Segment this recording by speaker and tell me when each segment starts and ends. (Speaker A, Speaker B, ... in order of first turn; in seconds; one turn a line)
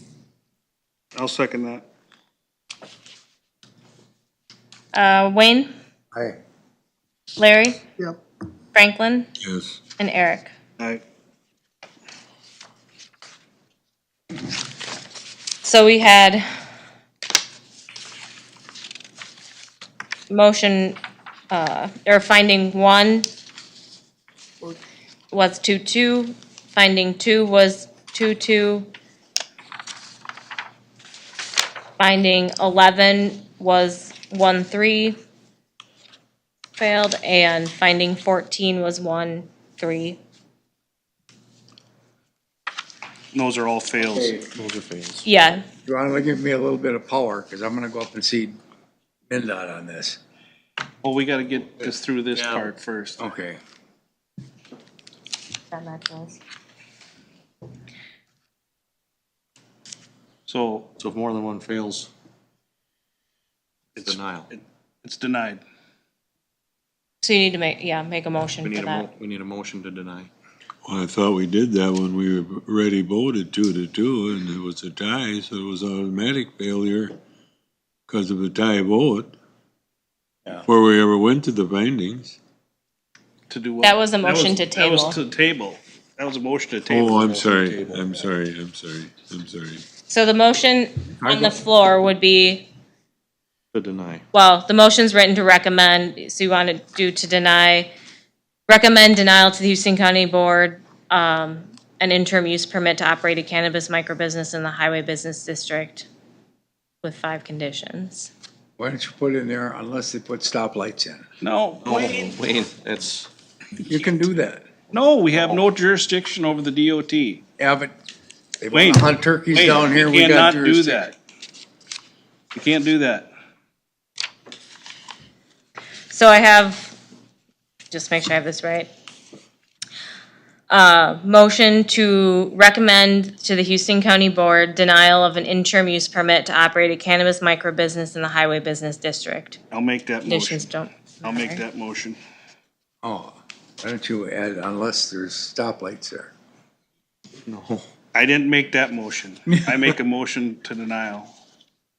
Speaker A: 1.2-1.9
Speaker B: 4.9-5.7
Speaker B: 7.4-7.8
Speaker B: 8.7-9.3
Speaker C: 9.4-9.8
Speaker B: 10.0-10.5
Speaker B: 15.6-16.4
Speaker B: 20.3-21.0
Speaker B: 21.5-23.3
Speaker B: 25.3-28.9
Speaker B: 32.0-35.2
Speaker B: 36.8-40.2
Speaker A: 43.3-44.4
Speaker D: 44.3-45.3
Speaker B: 45.2-45.6
Speaker E: 45.9-48.6
Speaker E: 49.3-50.2
Speaker A: 51.0-53.2
Speaker D: 52.4-52.7
Speaker E: 53.2-53.6
Speaker B: 55.7-56.4
Speaker A: 60.5-61.0
Speaker D: 61.0-62.1
Speaker A: 64.0-65.6
Speaker D: 64.0-64.5
Speaker B: 67.2-69.1
Speaker D: 68.6-70.3
Speaker C: 70.8-77.2
Speaker C: 78.1-79.4
Speaker C: 80.7-82.4
Speaker A: 83.5-87.1
Speaker B: 83.8-85.2
Speaker C: 86.9-89.8
Speaker D: 87.0-88.1
Speaker B: 90.1-92.7
Speaker E: 91.2-91.6
Speaker D: 93.7-94.2
Speaker B: 94.3-97.9
Speaker B: 98.7-106.1
Speaker B: 107.0-108.3
Speaker E: 108.8-111.3
Speaker A: 111.4-112.4
Speaker D: 111.8-113.3
Speaker E: 113.8-114.7
Speaker A: 114.9-117.4
Speaker E: 117.6-117.9
Speaker E: 118.6-121.1
Speaker A: 118.7-121.2
Speaker A: 122.5-123.3
Speaker B: 126.1-127.0
Speaker B: 127.9-128.9
Speaker B: 130.7-139.6
Speaker A: 139.7-140.7
Speaker B: 140.2-141.6
Speaker A: 141.2-142.2
Speaker E: 143.0-146.3
Speaker D: 147.5-147.8
Speaker A: 148.1-151.3